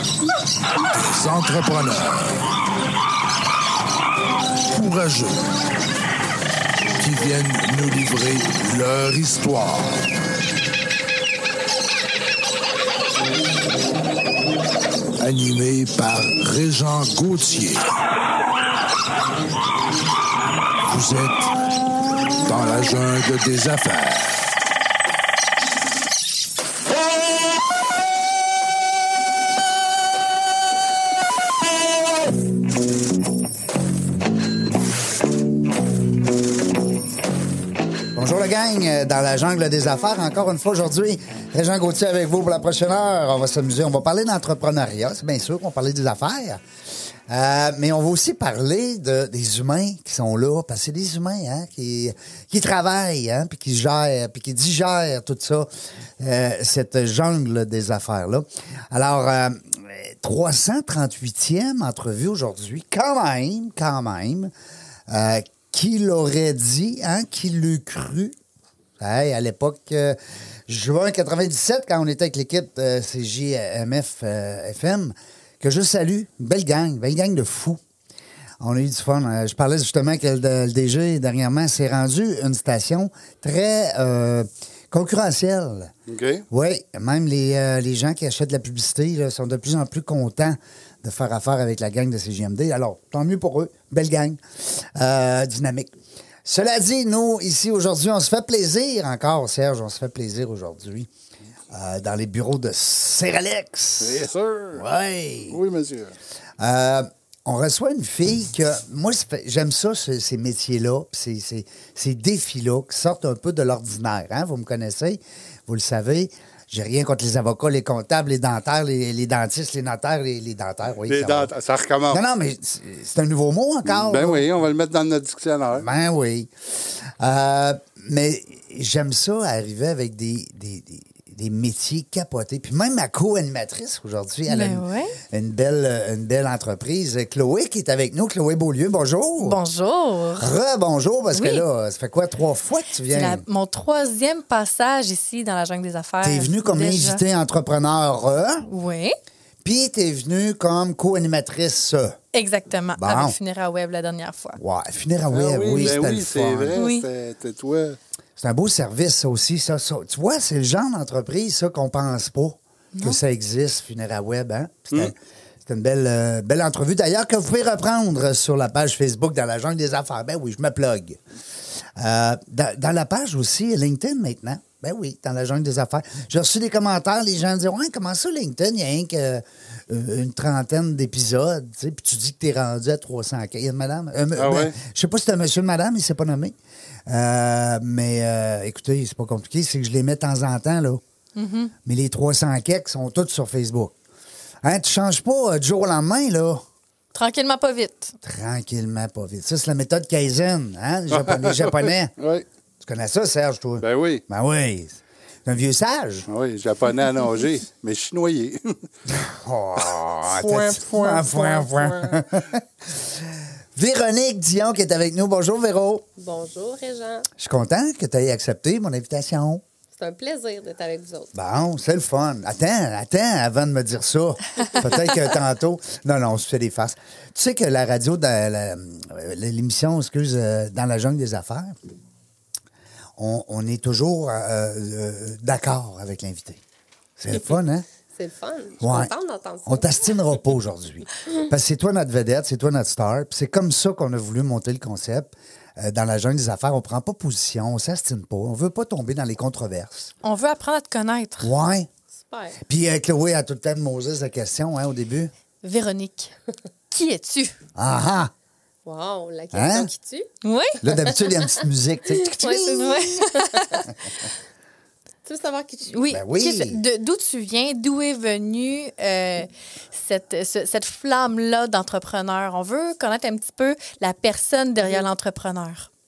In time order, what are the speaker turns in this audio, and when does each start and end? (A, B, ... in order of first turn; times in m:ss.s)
0:01.0-0:02.5 A
0:04.7-0:05.4 A
0:07.0-0:09.9 A
0:15.2-0:17.9 A
0:20.9-0:21.5 A
0:22.4-0:24.5 A
0:38.1-0:46.6 B
0:47.3-1:04.5 B
1:05.1-1:08.4 B
1:09.0-1:17.8 B
1:18.6-1:25.9 B
1:26.1-1:26.4 C
1:26.5-1:41.1 B
1:41.7-1:45.6 B
1:44.0-1:44.8 C
1:45.5-1:46.2 C
1:46.6-2:01.5 B
2:01.0-2:02.2 C
2:02.1-2:04.4 B
2:03.9-2:05.9 C
2:05.8-2:19.6 B
2:14.5-2:15.2 D
2:19.4-2:20.5 D
2:20.4-2:23.4 B
2:21.3-2:21.6 D
2:23.1-2:27.2 D
2:26.2-2:28.7 B
2:28.7-2:29.2 D
2:29.6-2:32.2 B
2:32.3-2:34.6 D
2:33.0-2:33.4 B
2:34.6-2:36.8 B
2:35.3-2:38.0 C
2:36.8-2:37.1 D
2:38.4-2:51.2 B
2:43.0-2:43.2 D
2:52.0-3:06.6 B
3:04.4-3:04.8 C
3:07.1-3:11.0 B
3:11.4-3:11.7 D
3:11.8-3:14.0 B
3:14.6-3:16.6 B
3:17.1-3:18.2 D
3:18.2-3:22.1 B
3:21.1-3:22.5 C
3:22.8-3:26.3 B
3:23.8-3:24.2 C
3:26.3-3:28.9 C
3:29.1-3:36.1 B
3:31.0-3:31.9 E
3:36.2-3:37.3 E
3:37.4-3:39.6 B
3:40.0-3:41.3 E
3:41.3-3:51.8 B
3:53.2-3:56.6 B
3:57.2-3:57.9 B
3:58.1-4:00.4 E
3:58.8-3:59.1 B
3:59.7-4:10.1 B
4:10.2-4:11.5 D
4:11.4-4:11.9 B
4:12.2-4:12.6 E
4:12.6-4:15.3 B
4:15.6-4:16.3 D
4:16.9-4:17.6 D
4:17.8-4:18.3 B
4:18.9-4:20.3 E
4:19.5-4:19.9 B
4:20.4-4:20.8 D
4:20.8-4:23.1 B
4:20.9-4:21.6 E
4:22.4-4:23.8 E
4:22.6-4:23.9 D
4:25.3-4:26.0 E
4:25.9-4:35.9 D
4:26.1-4:26.8 B